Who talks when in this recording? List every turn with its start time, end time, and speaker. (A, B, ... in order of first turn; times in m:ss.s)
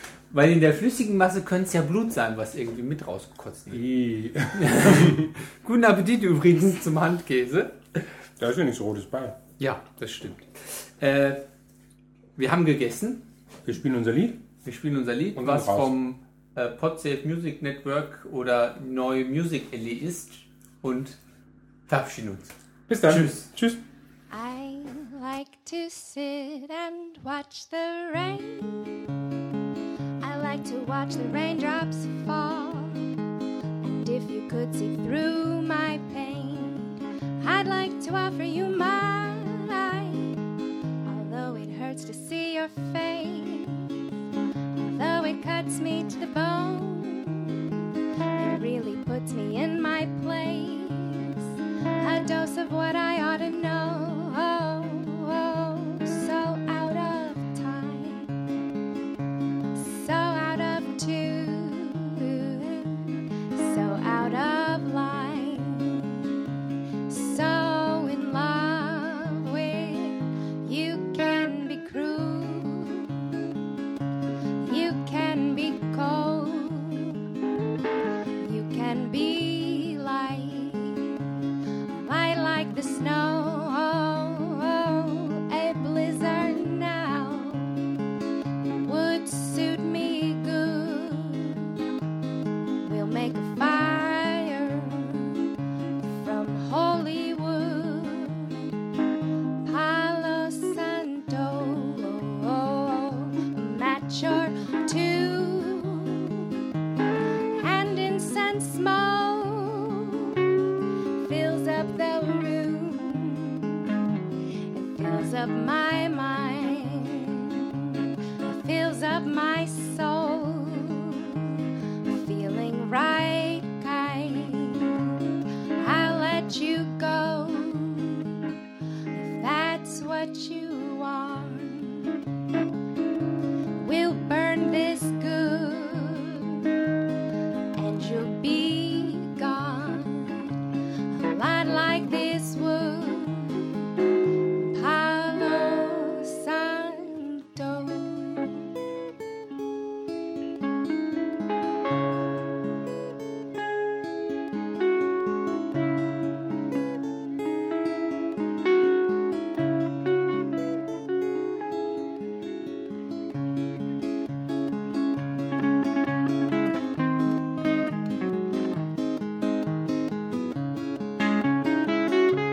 0:00.3-0:03.9 A
0:03.7-0:05.3 B
0:04.5-0:07.8 A
0:08.4-0:09.4 B
0:09.6-0:11.4 A
0:12.4-0:13.2 A
0:13.6-0:14.4 B
0:14.6-0:21.2 A
0:15.3-0:15.9 B
0:21.9-0:22.5 A
0:22.9-0:23.8 B
0:23.0-0:23.4 A
0:24.3-0:29.1 C
0:30.2-0:33.0 C
0:33.8-0:40.4 C
0:41.0-0:44.0 C
0:44.8-0:58.3 C
0:59.7-1:06.5 C
1:07.1-1:13.5 C
1:14.6-1:17.3 C
1:18.4-1:21.3 C
1:21.9-1:27.8 C
1:28.8-1:31.8 C
1:32.8-1:35.5 C
1:36.1-1:38.7 C
1:39.6-1:46.5 C
1:47.6-1:50.4 C
1:51.2-1:54.0 C
1:54.7-2:08.5 C
2:09.1-2:12.2 C
2:13.8-2:16.6 C
2:17.7-2:20.5 C
2:21.1-2:23.7 C
2:24.6-2:28.6 C